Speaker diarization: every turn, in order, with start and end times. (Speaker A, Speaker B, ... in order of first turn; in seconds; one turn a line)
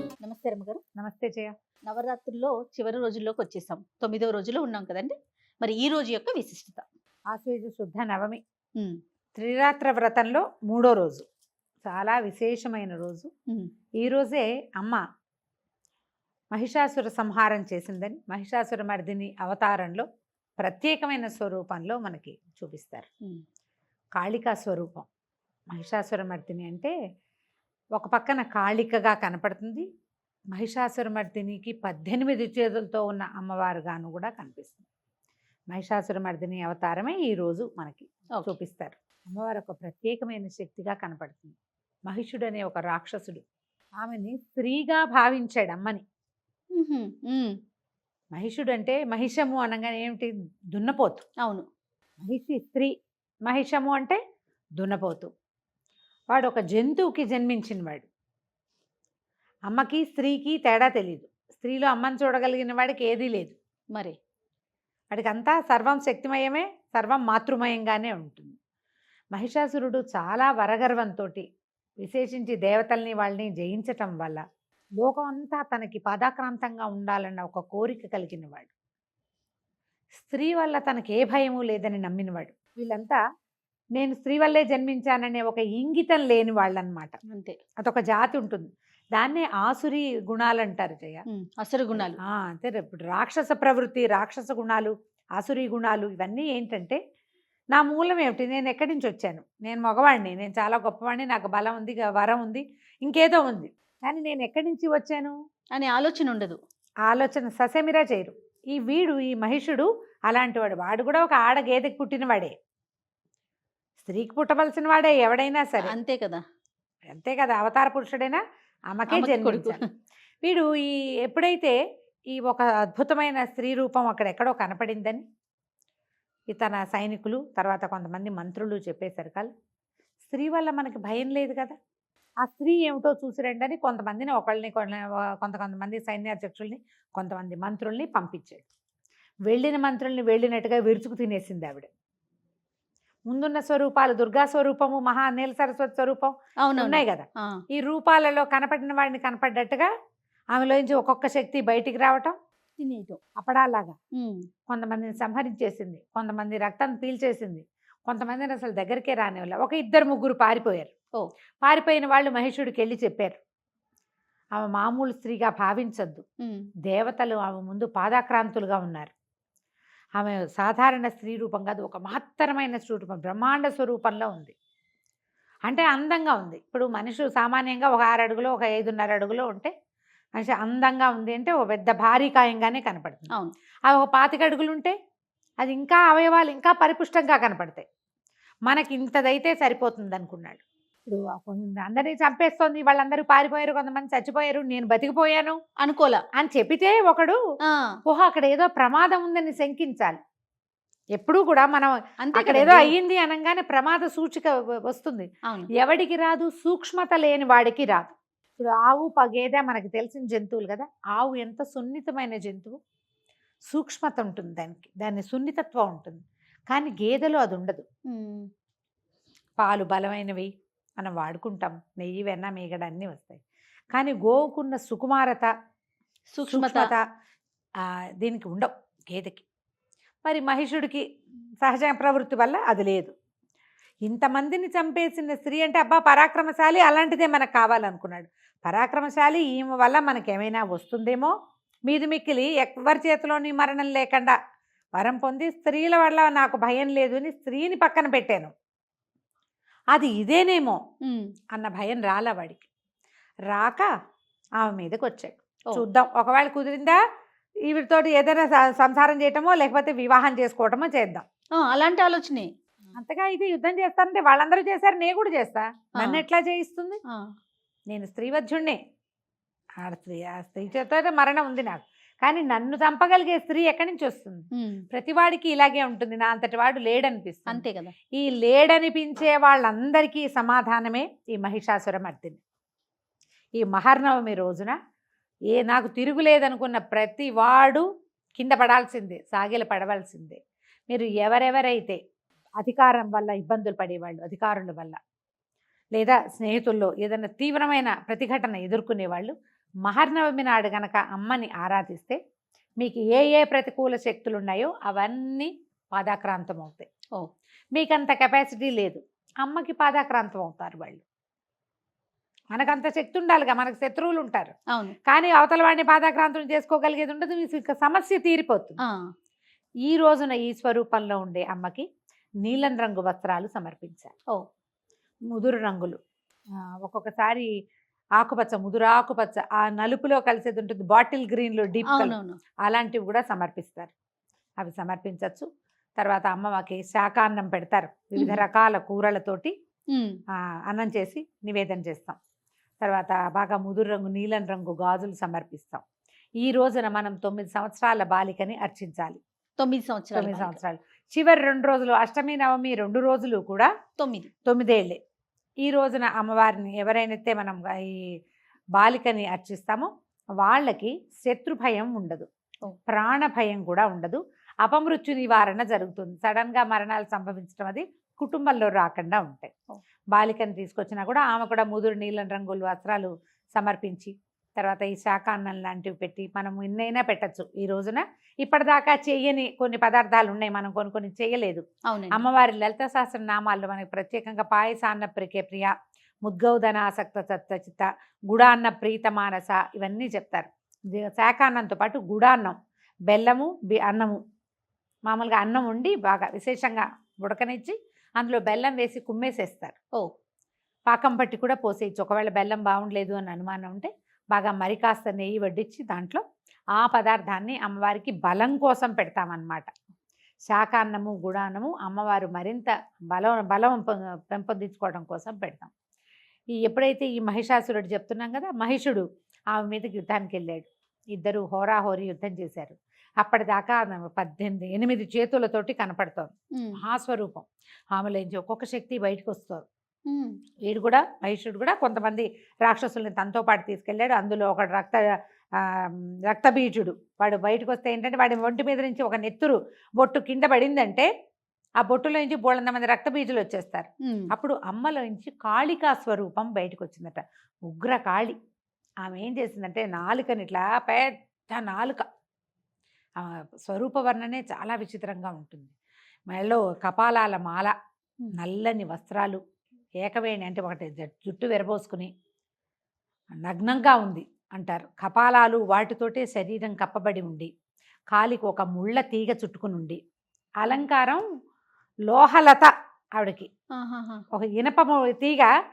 Speaker A: 0.2-0.8
Speaker B: 1.0-1.5
Speaker A: 1.9-6.8
Speaker B: 7.3-8.4
Speaker B: 9.3-11.2
Speaker B: 11.8-13.3
Speaker B: 14.0-15.0
Speaker B: 16.5-20.1
Speaker B: 20.6-23.1
Speaker B: 24.2-25.1
Speaker B: 25.7-26.9
Speaker B: 28.0-29.9
Speaker B: 30.5-34.9
Speaker B: 35.7-41.5
Speaker B: 42.1-43.4
Speaker B: 44.0-46.0
Speaker A: 46.8-47.5
Speaker B: 48.3-51.2
Speaker B: 52.2-52.9
Speaker B: 53.5-54.2
Speaker B: 54.8-55.3
Speaker B: 56.3-58.1
Speaker B: 59.7-63.5
Speaker B: 65.1-68.6
Speaker B: 69.3-71.5
Speaker B: 72.0-74.4
Speaker B: 75.0-78.7
Speaker B: 80.2-83.2
Speaker B: 84.0-87.2
Speaker A: 87.3-87.6
Speaker B: 87.8-91.2
Speaker A: 91.3-92.2
Speaker B: 91.9-97.0
Speaker B: 97.7-105.3
Speaker A: 105.8-106.6
Speaker B: 107.1-112.5
Speaker B: 114.0-116.0
Speaker A: 115.8-116.4
Speaker B: 117.1-119.8
Speaker A: 119.1-119.8
Speaker B: 120.4-121.8
Speaker B: 122.3-125.2
Speaker B: 126.5-129.5
Speaker B: 130.2-131.8
Speaker B: 132.4-138.6
Speaker B: 139.5-141.9
Speaker B: 143.3-149.9
Speaker A: 146.7-147.6
Speaker B: 150.5-152.3
Speaker A: 152.8-153.2
Speaker B: 153.4-154.0
Speaker A: 154.2-154.5
Speaker B: 154.7-160.9
Speaker B: 161.6-163.4
Speaker B: 164.6-166.2
Speaker A: 166.4-166.7
Speaker B: 166.8-169.1
Speaker B: 170.2-174.5
Speaker B: 175.7-179.7
Speaker B: 180.4-183.3
Speaker B: 183.9-184.9
Speaker B: 185.6-187.8
Speaker B: 188.7-195.6
Speaker A: 195.8-196.2
Speaker B: 196.4-197.4
Speaker B: 198.1-200.2
Speaker B: 201.2-212.8
Speaker A: 202.2-202.9
Speaker B: 213.7-216.2
Speaker B: 216.7-217.8
Speaker A: 218.1-218.5
Speaker B: 219.6-225.5
Speaker A: 226.3-226.8
Speaker B: 226.5-227.1
Speaker B: 227.8-229.4
Speaker B: 230.2-231.0
Speaker B: 231.6-233.1
Speaker B: 234.1-241.3
Speaker B: 241.9-244.3
Speaker B: 245.0-248.5
Speaker B: 249.9-250.8
Speaker A: 251.1-251.3
Speaker B: 251.5-252.7
Speaker B: 253.5-253.9
Speaker B: 254.6-257.0
Speaker B: 257.7-261.2
Speaker A: 261.6-262.5
Speaker B: 262.9-267.0
Speaker B: 267.9-268.8
Speaker B: 269.8-277.6
Speaker A: 274.6-274.8
Speaker A: 277.5-277.9
Speaker B: 278.2-282.4
Speaker B: 283.6-284.8
Speaker B: 285.5-287.8
Speaker B: 288.4-290.4
Speaker B: 290.9-292.0
Speaker B: 292.6-295.0
Speaker B: 295.9-299.3
Speaker B: 299.8-302.2
Speaker B: 302.8-306.9
Speaker B: 307.7-311.0
Speaker B: 312.5-314.5
Speaker B: 315.1-318.8
Speaker B: 319.9-321.9
Speaker B: 322.4-324.1
Speaker B: 325.3-326.0
Speaker B: 326.5-327.5
Speaker B: 328.2-333.9
Speaker A: 331.9-332.4
Speaker B: 334.6-335.5
Speaker B: 336.0-339.5
Speaker B: 340.3-342.2
Speaker B: 342.8-345.8
Speaker B: 346.4-349.2
Speaker A: 349.6-350.6
Speaker B: 350.1-353.7
Speaker A: 354.0-354.3
Speaker B: 354.5-355.0
Speaker B: 355.6-358.1
Speaker B: 358.8-359.9
Speaker B: 360.4-362.3
Speaker B: 362.9-369.5
Speaker B: 370.1-385.7
Speaker A: 381.9-382.2
Speaker B: 386.2-392.6
Speaker B: 393.1-394.2
Speaker B: 395.1-399.8
Speaker B: 400.9-406.2
Speaker B: 406.8-409.7
Speaker B: 410.5-415.7
Speaker B: 416.5-429.6
Speaker B: 430.7-435.0
Speaker B: 435.6-441.1
Speaker B: 441.8-448.4
Speaker A: 444.1-444.3
Speaker B: 449.0-452.0
Speaker B: 453.2-455.7
Speaker B: 456.3-457.7
Speaker B: 458.3-459.4
Speaker B: 460.0-462.1
Speaker B: 463.4-467.5
Speaker B: 468.1-470.0
Speaker B: 470.6-471.2
Speaker B: 472.1-473.5
Speaker A: 473.8-474.2
Speaker B: 474.3-475.5